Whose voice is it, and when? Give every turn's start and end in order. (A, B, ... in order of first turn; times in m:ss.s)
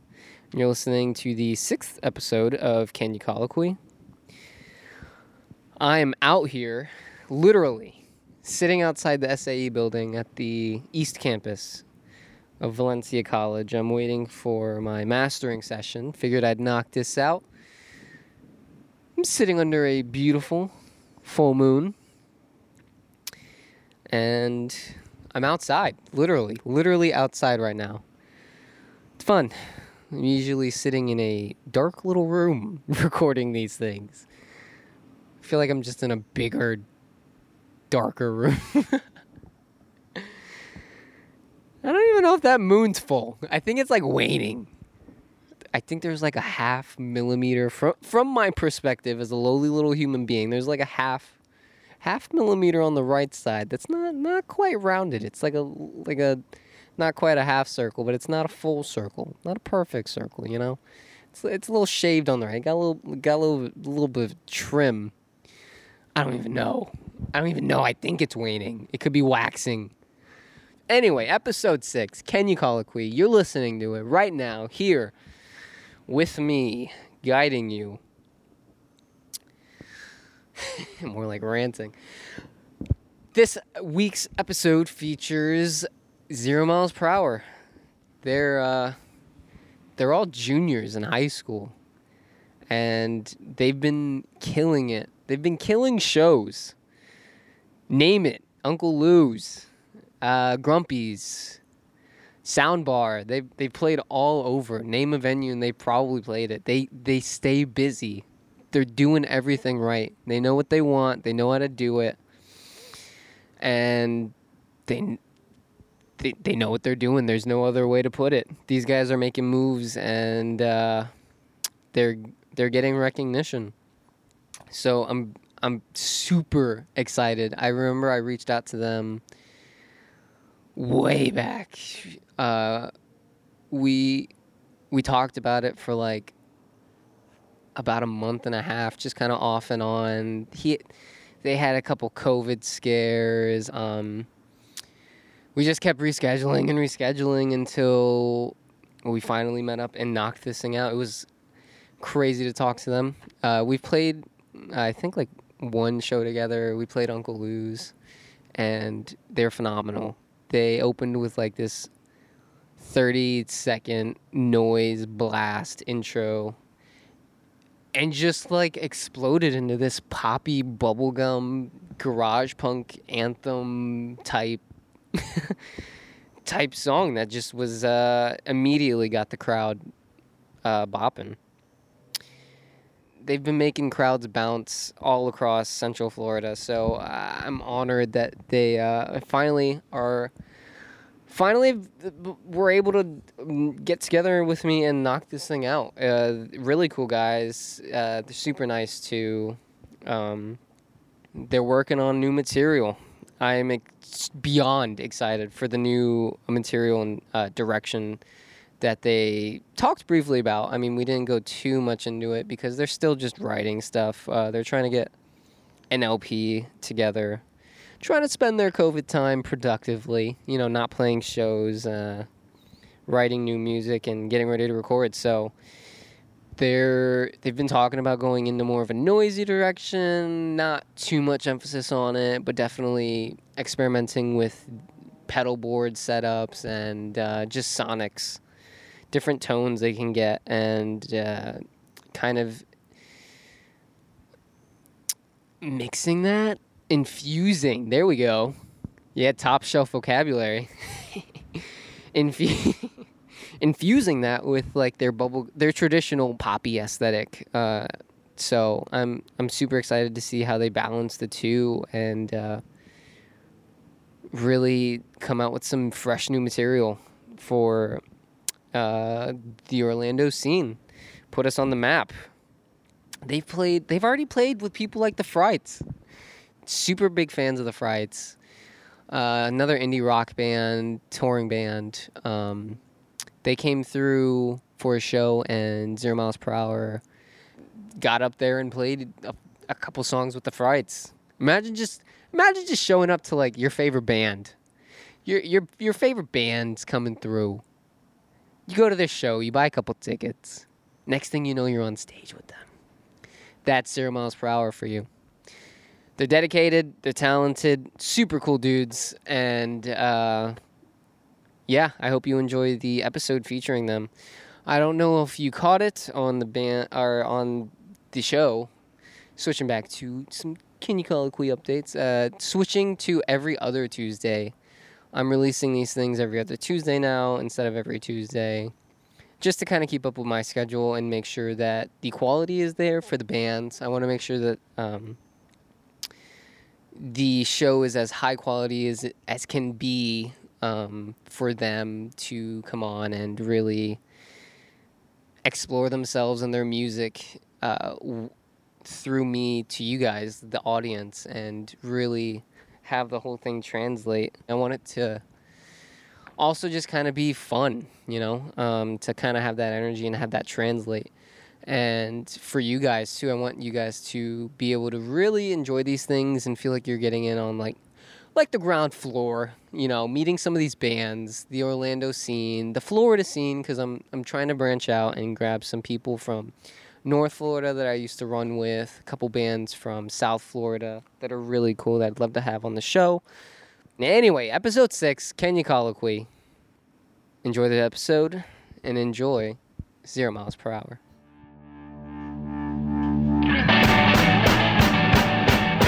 0:00.5-0:03.8 A
0:05.8-0:11.8 A
0:12.6-0:17.4 A
0:19.2-0:20.7 A
0:21.2-0:22.0 A
0:24.1-0:28.0 A
0:29.2-0:34.2 A
0:35.4-0:36.8 A
0:37.9-0:39.0 A
0:41.8-0:44.7 A
0:45.7-0:51.3 A
0:52.0-0:56.4 A
0:57.0-1:00.8 A
1:01.3-1:05.1 A
1:06.2-1:09.9 A
1:10.9-1:15.1 A
1:16.1-1:18.0 A
1:20.6-1:22.0 A
1:23.3-1:27.4 A
1:28.2-1:29.0 A
1:30.0-1:31.7 A
1:32.7-1:36.7 A
1:37.9-1:39.7 A
1:40.2-1:41.6 A
1:42.4-1:52.2 A
1:53.6-1:54.3 A
1:54.9-1:55.2 A
1:56.2-2:01.1 A
2:01.9-2:03.7 A
2:04.7-2:09.2 A
2:10.8-2:12.9 A
2:13.7-2:14.3 A
2:14.9-2:16.3 A
2:17.8-2:20.9 A
2:21.4-2:24.3 A
2:25.5-2:31.3 A
2:32.0-2:37.9 A
2:38.5-2:41.9 A
2:42.8-2:46.6 A
2:47.9-2:54.6 A
2:55.1-2:55.6 A
2:56.4-2:59.8 A
3:00.6-3:01.4 A
3:03.2-3:10.3 A
3:11.3-3:20.6 A
3:21.3-3:28.2 A
3:28.8-3:35.1 A
3:35.9-3:37.4 A
3:38.0-3:42.3 A
3:43.1-3:45.5 A
3:46.6-3:58.4 A
3:59.1-4:01.6 A
4:02.1-4:02.6 A
4:05.6-4:08.6 A
4:09.1-4:13.1 A
4:13.6-4:22.6 A
4:24.3-4:28.0 A
4:28.7-4:30.8 A
4:31.3-4:32.2 A
4:33.2-4:35.8 A
4:36.6-4:38.4 A
4:39.1-4:42.8 A
4:43.4-4:47.0 A
4:47.9-4:54.5 A
4:55.2-4:57.6 A
4:58.7-5:02.7 A
5:03.6-5:05.1 A
5:06.2-5:10.6 A
5:11.7-5:14.1 A
5:14.6-5:18.7 A
5:19.4-5:24.5 A
5:25.1-5:28.7 A
5:29.4-5:35.2 A
5:36.9-5:44.0 A
5:45.4-5:48.3 A
5:48.8-5:55.2 A
5:56.4-6:01.1 A
6:01.6-6:07.8 A
6:08.3-6:16.5 A
6:17.0-6:23.2 A
6:24.0-6:26.3 A
6:27.4-6:31.0 A